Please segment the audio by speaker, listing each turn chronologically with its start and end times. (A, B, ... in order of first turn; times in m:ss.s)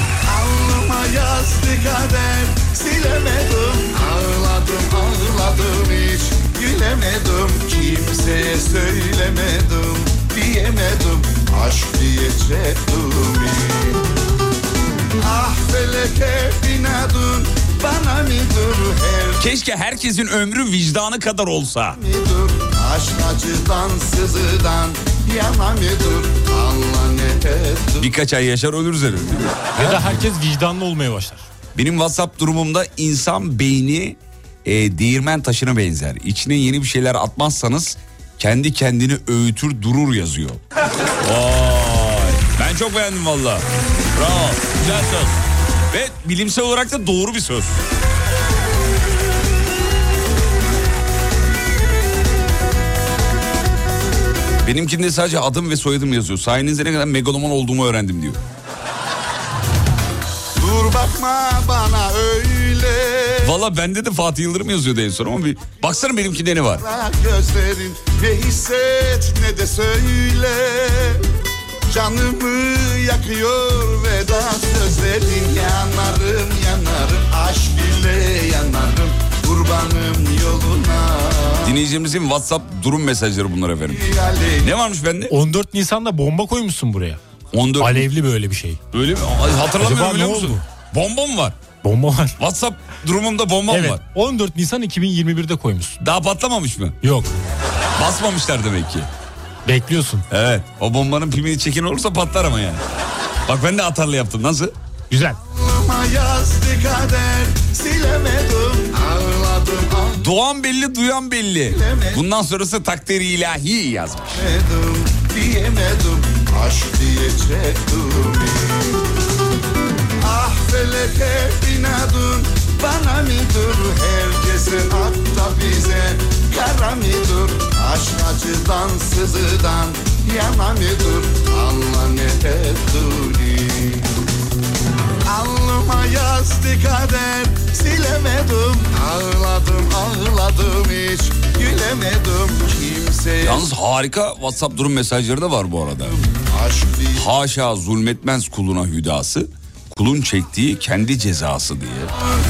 0:00.3-0:14.0 A
0:15.2-0:19.5 A
0:19.4-0:22.0 B
0:22.0-0:28.1 A
0:28.0-0:30.1 B
0:29.7-0:31.5 C
0:31.7-0:40.6 B
0:41.2-0:47.8 B
0:54.6-0:58.4 B
1:00.5-1:03.6 A
1:03.4-1:06.8 B
1:06.8-1:11.2 A
1:11.9-1:21.8 A
1:21.6-1:24.0 B
1:23.9-1:24.7 A
1:24.6-1:25.3 B
1:25.3-1:27.2 C
1:27.5-1:28.1 B
1:27.8-1:28.8 C
1:28.9-1:31.6 B
1:29.8-1:30.6 C
1:31.8-1:32.4 C
1:32.4-1:34.0 B
1:33.7-1:36.0 C
1:36.0-1:37.0 B
1:37.0-1:37.3 C
1:38.0-1:39.1 B
1:39.6-1:40.2 C
1:40.3-1:42.8 B
1:43.5-1:44.7 B
1:45.1-1:45.4 C
1:45.5-1:50.3 A
1:50.2-1:54.4 B
1:51.7-1:52.2 A
1:54.3-1:58.7 A
2:00.2-2:14.0 A
2:15.3-2:23.6 A
2:23.4-2:26.2 B
2:26.4-2:27.3 A
2:27.1-2:32.1 B